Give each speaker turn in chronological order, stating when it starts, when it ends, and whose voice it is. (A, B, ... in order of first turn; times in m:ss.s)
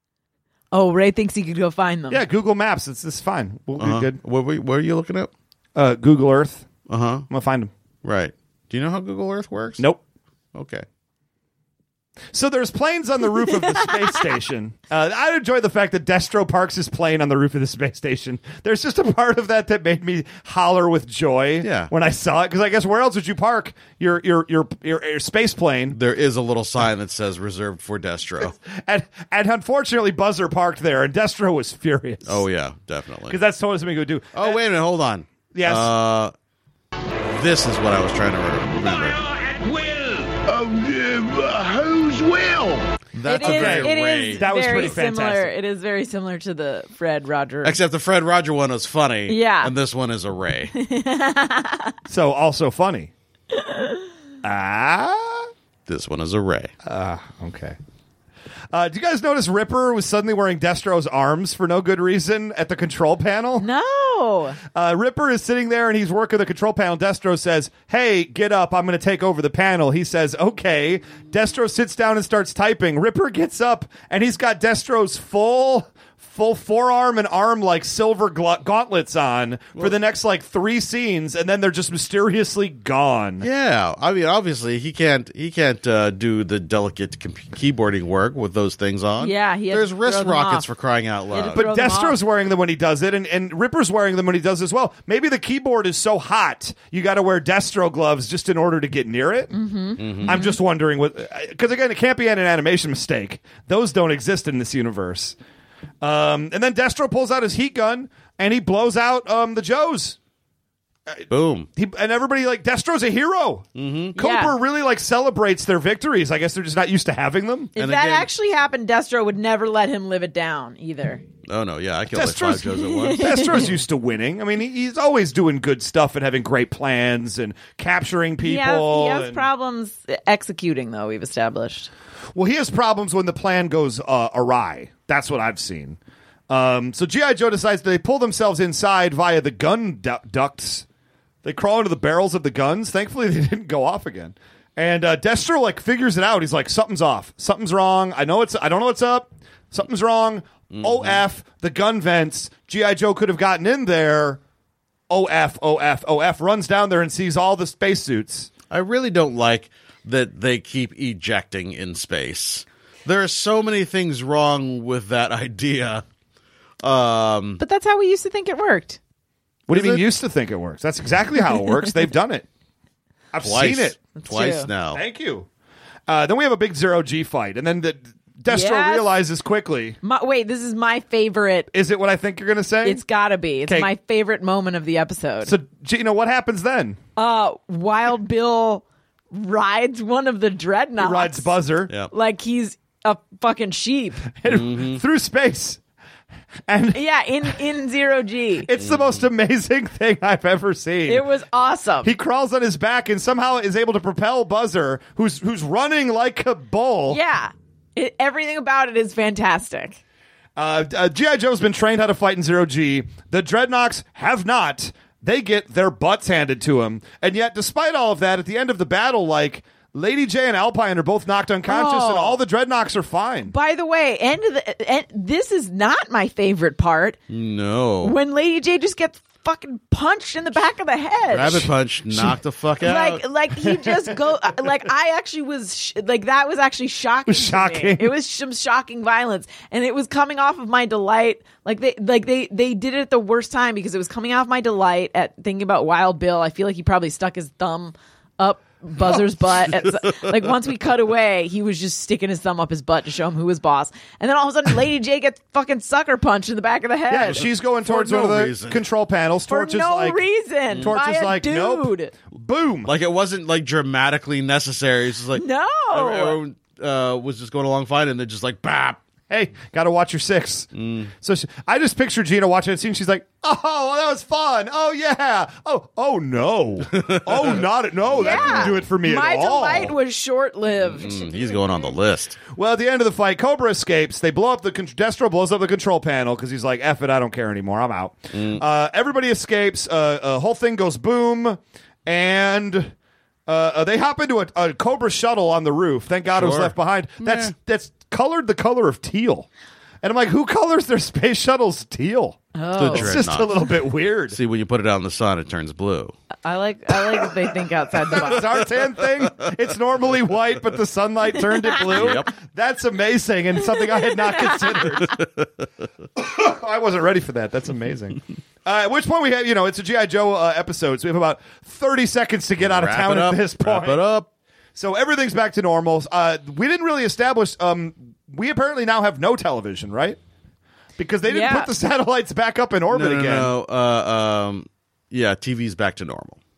0:00.7-0:02.2 A
0:02.1-0:04.2 B
0:03.8-0:05.3 C
0:05.7-0:06.7 B
0:06.9-0:07.2 C
0:07.3-0:07.7 B
0:08.0-0:09.8 C
0:10.5-0:10.8 C
0:12.3-0:26.0 B
0:13.6-0:14.0 A
0:21.6-0:21.9 C
0:25.9-0:28.5 C
0:28.4-0:32.4 B
0:32.2-0:33.4 C
0:33.3-0:34.6 B
0:34.3-0:36.3 C
0:35.5-0:35.9 B
0:37.2-0:39.2 C
0:38.8-0:42.9 D
0:43.1-0:44.9 C
0:43.2-0:47.8 A
0:43.4-0:45.5 B
0:47.6-0:50.7 C
0:49.3-0:49.7 A
0:50.7-0:51.9 A
0:52.1-0:53.1 B
0:53.5-0:54.0 A
0:54.4-0:55.5 B
0:55.9-0:56.7 C
0:56.8-0:57.8 B
0:58.7-1:03.7 B
1:03.6-1:04.6 A
1:04.7-1:23.5 B
1:23.4-1:31.6 C
1:29.2-1:30.6 A
1:31.3-1:32.2 A
1:31.5-1:39.5 B
1:39.5-1:40.6 A
1:40.0-1:40.4 C
1:40.2-1:45.4 B
1:46.0-1:50.2 B
1:51.1-1:57.7 B
1:51.3-1:51.7 C
1:53.8-1:54.2 C
1:54.2-1:54.5 A
1:57.8-1:58.3 C
1:57.8-2:01.2 A
2:01.5-2:03.7 C
2:02.1-2:09.4 B
2:02.9-2:03.8 A
2:08.4-2:11.9 A
2:12.3-2:16.0 B
2:16.5-2:20.8 B
2:21.4-2:34.4 B
2:30.7-2:31.2 C
2:35.1-2:38.5 B
2:38.7-2:46.0 C
2:46.8-2:47.6 C
2:47.6-2:49.0 A
2:49.7-2:52.5 B
2:49.7-2:50.0 C
2:53.3-2:53.9 B
2:53.4-2:55.0 C
2:54.2-2:54.7 A
2:54.9-2:55.5 B
2:56.1-3:00.0 B
2:58.5-2:59.1 A
3:00.0-3:01.7 A
3:01.7-3:03.0 B
3:02.8-3:05.5 A
3:05.4-3:07.0 B
3:07.2-3:11.5 A
3:11.0-3:11.9 B
3:12.1-3:14.2 A
3:14.4-3:15.8 B
3:14.5-3:15.0 C
3:16.7-3:17.0 B
3:16.9-3:18.7 A
3:18.6-3:21.2 B
3:18.8-3:19.2 C
3:21.1-3:22.1 A
3:22.0-3:27.2 B
3:27.1-3:30.0 A
3:30.6-3:43.5 B
3:41.7-3:42.4 A
3:43.5-3:47.2 A
3:47.3-3:48.2 C
3:48.0-3:51.7 A
3:51.3-3:53.2 C
3:51.4-3:52.4 B
3:52.8-4:17.4 A
3:53.6-3:54.5 B
3:57.3-3:58.1 B
4:17.1-4:20.2 B
4:17.2-4:18.8 C
4:19.5-4:22.1 A
4:20.8-4:22.9 B
4:22.8-4:29.0 C
4:25.4-4:26.4 A
4:29.3-4:30.7 B
4:30.7-4:31.1 C
4:31.2-4:39.9 B
4:36.9-4:37.6 C
4:38.1-4:38.8 C
4:38.1-4:41.3 A
4:40.8-4:42.4 C
4:42.5-4:52.9 B
4:48.3-4:48.6 C
4:53.5-4:59.5 B
4:56.3-4:57.5 C
5:00.0-5:04.4 B
5:02.5-5:03.2 A
5:02.8-5:06.1 C
5:06.4-5:08.5 A
5:08.1-5:15.1 B
5:11.9-5:12.3 C
5:13.6-5:15.0 A
5:15.0-5:15.6 C
5:16.2-5:24.0 B
5:22.6-5:24.3 C
5:24.8-5:30.2 B
5:31.0-5:33.5 B
5:31.3-5:31.7 A
5:32.9-5:36.4 C